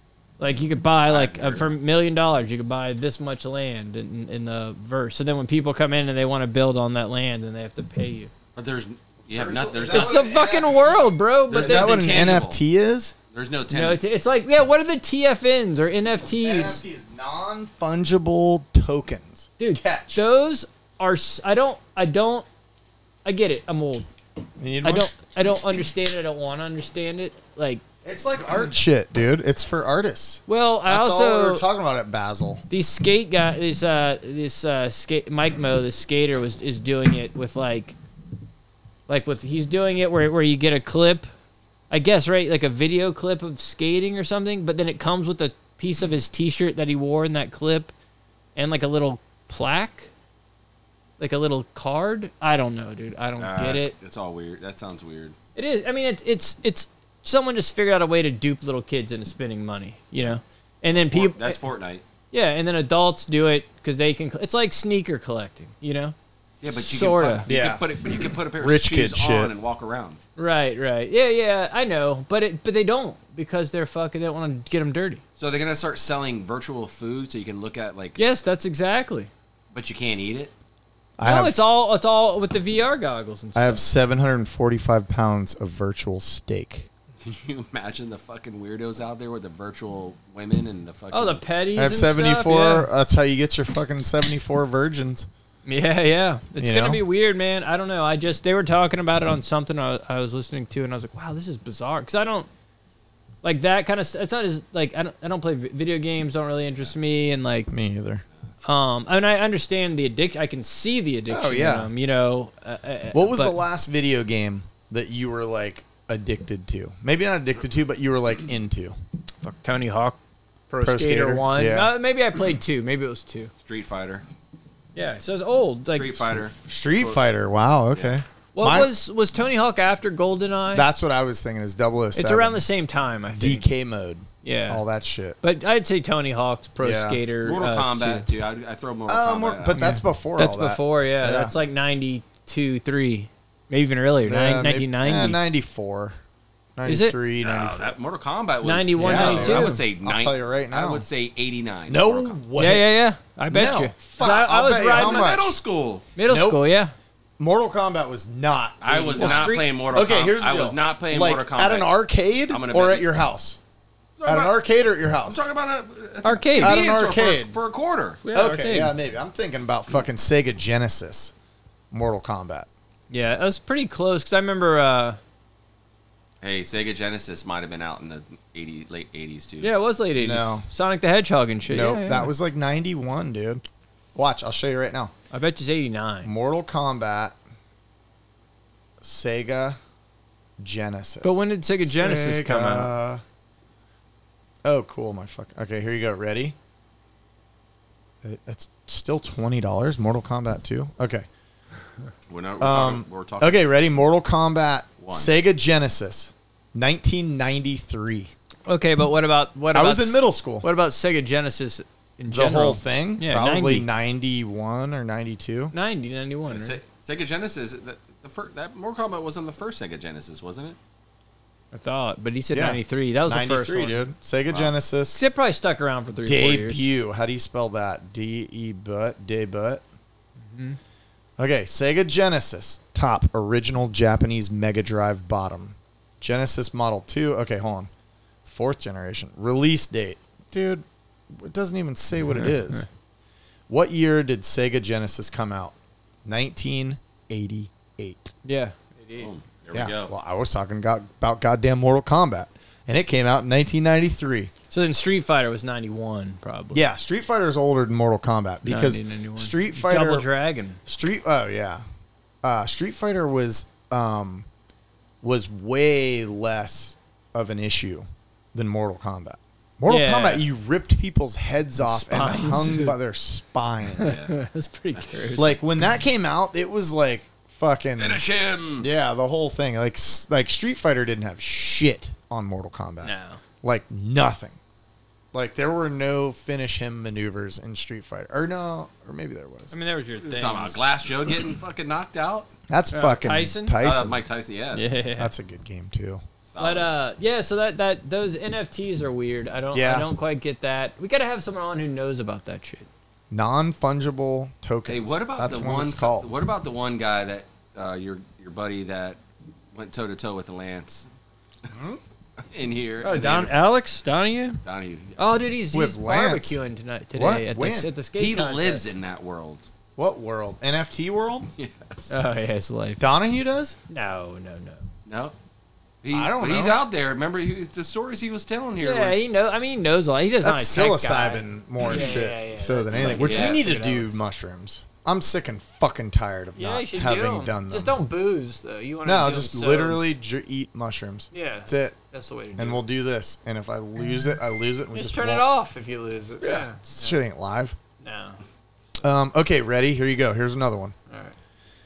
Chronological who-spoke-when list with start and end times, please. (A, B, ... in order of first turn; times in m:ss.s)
0:00.4-0:08.3 A
0:01.0-0:01.7 B
0:08.6-0:10.6 B
0:09.3-0:13.1 C
0:09.9-0:12.4 A
0:11.5-0:12.6 B
0:13.3-0:14.0 B
0:13.7-0:16.8 A
0:16.4-0:20.2 C
0:19.6-0:22.4 A
0:23.2-0:24.1 A
0:24.6-0:25.1 C
0:24.8-0:27.8 A
0:28.0-0:32.6 C
0:30.5-0:31.6 A
0:32.7-0:38.0 A
0:39.1-0:41.3 A
0:41.9-0:47.9 A
0:48.6-0:50.1 A
0:51.2-0:53.9 A
0:53.4-0:55.4 B
0:55.6-1:01.6 A
1:01.0-1:02.0 B
1:02.3-1:06.1 A
1:06.6-1:10.2 B
1:06.8-1:07.5 A
1:07.4-1:09.5 C
1:10.4-1:15.2 A
1:15.4-1:18.2 B
1:18.2-1:19.3 A
1:19.7-1:20.5 B
1:21.2-1:21.6 C
1:21.2-1:23.8 A
1:23.6-1:26.9 C
1:27.2-1:31.4 B
1:31.1-1:32.9 A
1:31.8-1:35.3 C
1:35.7-1:42.5 A
1:36.6-1:37.0 C
1:43.4-1:47.7 A
1:47.7-1:48.2 C
1:48.6-1:53.6 A
1:51.3-1:51.9 C
1:53.1-1:59.0 C
1:59.4-2:00.2 A
2:00.7-2:03.5 A
2:00.8-2:01.9 C
2:03.6-2:04.2 B
2:05.0-2:06.2 A
2:05.9-2:06.6 B
2:06.6-2:08.9 C
2:08.6-2:10.9 A
2:10.7-2:12.6 C
2:12.1-2:13.7 A
2:13.3-2:15.4 C
2:14.4-2:14.8 A
2:15.4-2:18.3 A
2:16.8-2:17.2 C
2:17.4-2:19.8 B
2:19.1-2:21.5 C
2:19.7-2:25.4 A
2:24.2-2:26.2 C
2:26.8-2:28.0 C
2:26.9-2:27.2 A
2:27.4-2:32.4 B
2:28.6-2:29.8 A
2:29.0-2:31.0 C
2:31.9-2:32.9 C
2:32.6-2:35.3 A
2:33.5-2:35.6 C
2:34.9-2:36.1 B
2:36.2-2:36.9 A
2:36.3-2:36.6 C
2:37.4-2:43.6 C
2:38.8-2:41.9 B
2:39.2-2:39.7 A
2:42.5-2:43.1 B
2:44.2-2:44.6 B
2:44.3-2:45.4 C
2:45.2-2:48.2 B
2:46.2-2:46.8 A
2:46.6-2:47.6 C
2:48.2-2:48.9 A
2:48.3-2:51.3 C
2:51.9-2:52.7 C
2:53.1-2:55.2 A
2:56.4-2:59.7 B
2:59.6-3:02.3 A
3:00.2-3:00.7 C
3:01.7-3:03.6 C
3:04.1-3:05.1 C
3:05.3-3:06.3 A
3:06.2-3:07.4 C
3:09.0-3:09.8 C
3:10.6-3:13.2 C
3:11.2-3:12.9 A
3:14.6-3:16.6 C
3:18.2-3:21.3 C
3:22.3-3:23.6 B
3:22.6-3:28.3 C
3:25.0-3:25.3 B
3:28.7-3:33.9 A
3:29.7-3:30.7 C
3:32.3-3:35.7 C
3:35.7-3:36.8 A
3:36.5-3:40.8 B
3:41.7-3:44.0 A
3:42.5-3:45.2 C
3:45.1-3:46.8 A
3:46.2-3:49.8 C
3:50.5-3:50.8 A
3:51.4-3:57.9 C
3:58.4-4:02.9 C
4:02.3-4:02.8 A
4:03.7-4:08.3 C
4:08.4-4:09.3 A
4:09.2-4:10.1 B
4:09.7-4:14.5 C
4:14.7-4:16.8 A
4:16.7-4:20.3 C
4:18.6-4:20.8 A
4:20.9-4:21.8 C
4:22.4-4:24.5 C
4:25.2-4:34.2 C
4:29.9-4:30.4 A
4:31.8-4:33.0 A
4:34.0-4:35.6 A
4:34.0-4:34.4 B
4:35.4-4:38.2 C
4:38.0-4:38.9 B
4:38.8-4:44.6 C
4:43.0-4:43.4 A
4:45.3-4:49.7 C
4:49.7-4:50.8 A
4:50.2-4:52.5 B
4:52.7-4:54.2 C
4:52.9-4:53.8 A
4:53.8-4:54.8 B
4:54.7-4:55.3 A
4:55.2-4:56.2 C
4:56.5-4:56.9 B
4:56.6-5:02.9 A
4:59.7-5:00.1 C
5:03.3-5:06.3 C
5:04.9-5:09.2 B
5:09.7-5:11.0 B
5:11.7-5:12.0 C
5:12.5-5:13.5 B
5:13.0-5:14.6 A
5:14.6-5:15.2 B
5:15.2-5:18.9 A
5:15.7-5:16.6 C
5:17.1-5:17.9 C
5:18.2-5:19.7 B
5:20.0-5:21.5 C
5:21.6-5:22.1 B
5:22.1-5:23.0 A
5:23.0-5:23.8 C
5:23.9-5:24.8 A
5:25.0-5:25.4 B
5:26.0-5:29.2 B
5:26.1-5:26.8 C
5:28.8-5:34.2 A
5:30.4-5:38.0 C
5:31.8-5:32.2 B
5:32.9-5:33.6 B
5:36.6-5:40.1 A
5:39.0-5:41.9 C
5:41.3-5:42.8 A
5:42.6-5:45.4 C
5:44.9-5:47.2 A
5:46.4-5:47.8 C
5:48.0-5:48.4 A
5:49.0-5:51.0 C
5:51.1-5:51.4 A